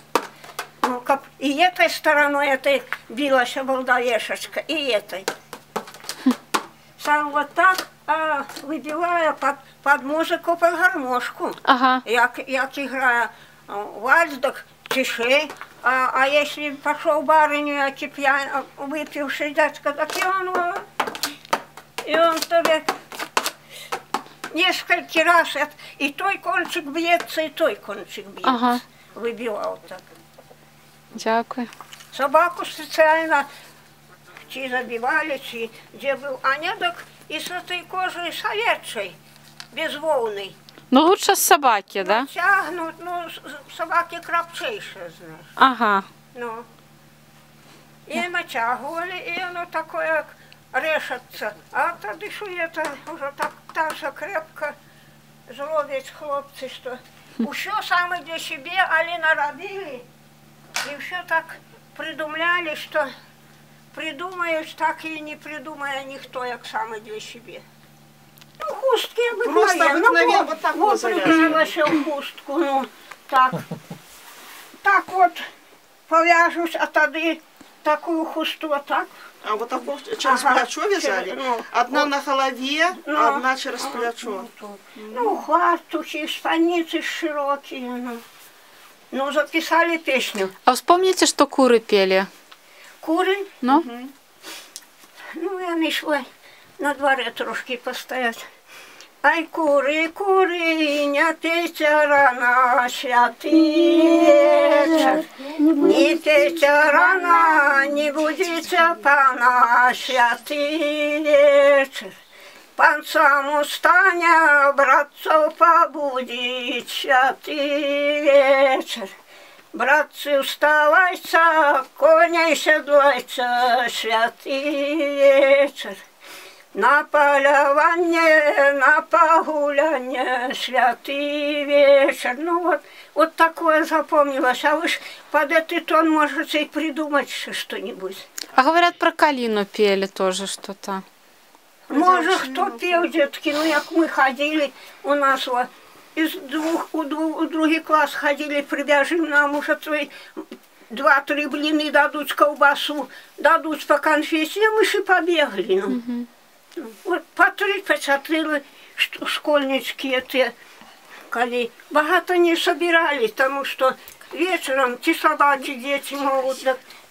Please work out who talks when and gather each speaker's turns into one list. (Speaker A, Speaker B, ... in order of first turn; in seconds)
Speaker A: 0.8-5.3, 7.0-20.9, 22.0-22.9, 24.5-30.0, 32.1-33.5, 34.5-39.2, 39.7-40.6, 42.0-45.5, 46.3-46.7, 48.1-54.7, 55.5-60.0, 60.8-63.1, 63.9-67.6, 68.6-73.7, 74.8-75.4, 76.1-79.1, 80.2-82.1, 83.0-88.2, 89.1-90.5, 93.0-93.6, 95.3-96.3, 96.8-98.5, 99.2-105.2, 105.8-112.1, 112.8-119.1, 119.7-126.0, 126.7-138.3, 141.9-150.2, 150.9-156.0, 156.8-160.5, 161.3-166.8
Speaker B: 11.7-12.0, 28.4-28.8, 31.1-31.7, 40.9-42.3, 45.6-46.0, 90.7-92.3, 138.6-141.0, 155.9-156.3
Speaker C: 69.4-71.7, 79.4-84.5, 85.0-85.3, 93.7-94.1, 142.3-142.6